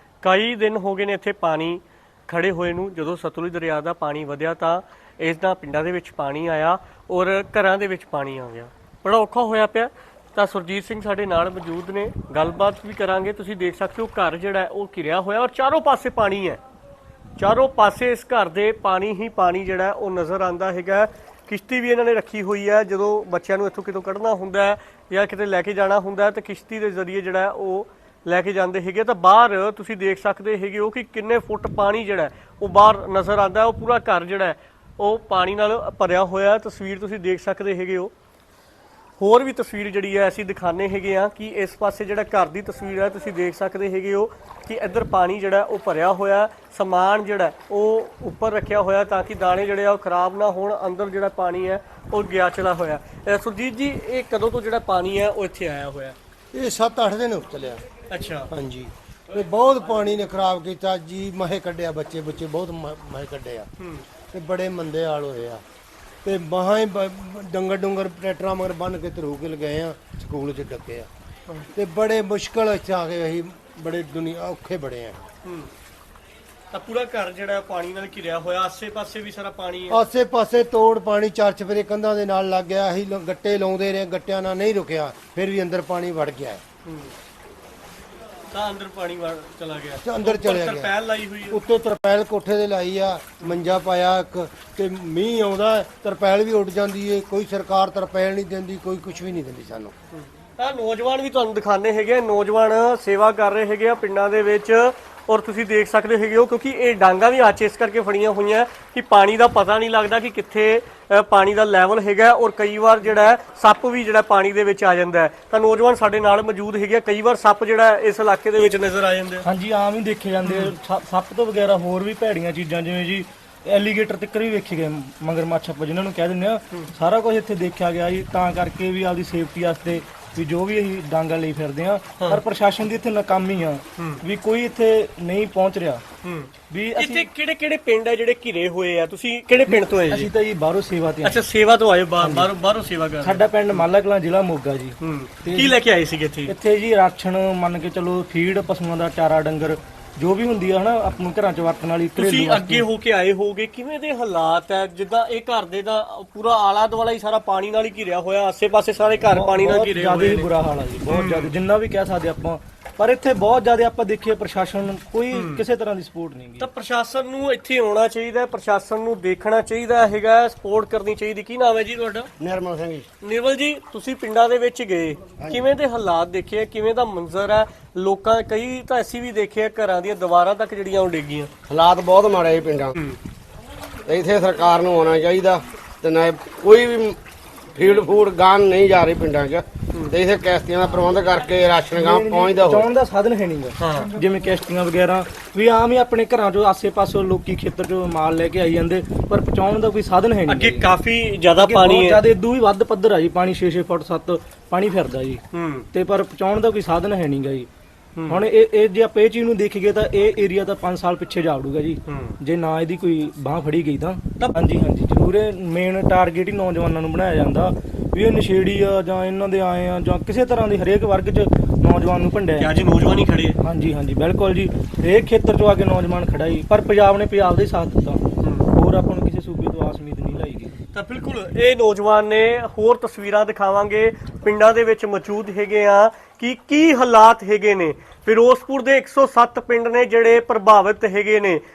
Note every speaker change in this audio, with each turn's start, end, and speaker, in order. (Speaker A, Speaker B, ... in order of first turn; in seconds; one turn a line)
Speaker A: 0.2-16.6
Speaker A: 17.4-38.1
Speaker A: 39.2-56.2
Speaker B: 56.5-57.8
Speaker A: 58.1-58.5
Speaker B: 58.5-63.7
Speaker A: 63.8-64.1
Speaker B: 64.3-65.6
Speaker B: 66.2-71.1
Speaker B: 71.8-75.2
Speaker A: 75.4-75.7
Speaker A: 76.7-80.0
Speaker B: 79.9-86.6
Speaker A: 86.8-87.1
Speaker A: 88.5-91.6
Speaker B: 90.0-90.9
Speaker B: 91.5-99.9
Speaker A: 100.1-119.5
Speaker C: 119.4-136.0
Speaker A: 120.4-120.7
Speaker A: 134.0-134.2
Speaker A: 136.2-140.3
Speaker C: 136.7-137.3
Speaker C: 139.7-141.4
Speaker A: 141.2-143.8
Speaker C: 142.2-142.5
Speaker C: 143.2-145.7
Speaker A: 145.0-146.5
Speaker C: 146.5-152.9
Speaker A: 152.2-160.5
Speaker C: 159.3-166.7
Speaker A: 161.1-161.5
Speaker A: 165.3-165.6
Speaker A: 166.6-172.3
Speaker D: 172.4-173.1
Speaker A: 173.2-181.5
Speaker D: 181.7-182.9
Speaker D: 184.1-187.2
Speaker D: 187.8-192.9
Speaker C: 191.9-200.9
Speaker A: 193.8-194.1
Speaker A: 200.5-202.2
Speaker C: 201.6-205.4
Speaker A: 205.5-205.9
Speaker C: 205.9-207.7
Speaker A: 208.2-208.4
Speaker C: 208.3-222.7
Speaker A: 212.1-212.4
Speaker A: 222.6-223.6
Speaker C: 223.6-230.7
Speaker A: 228.4-228.7
Speaker A: 230.9-241.6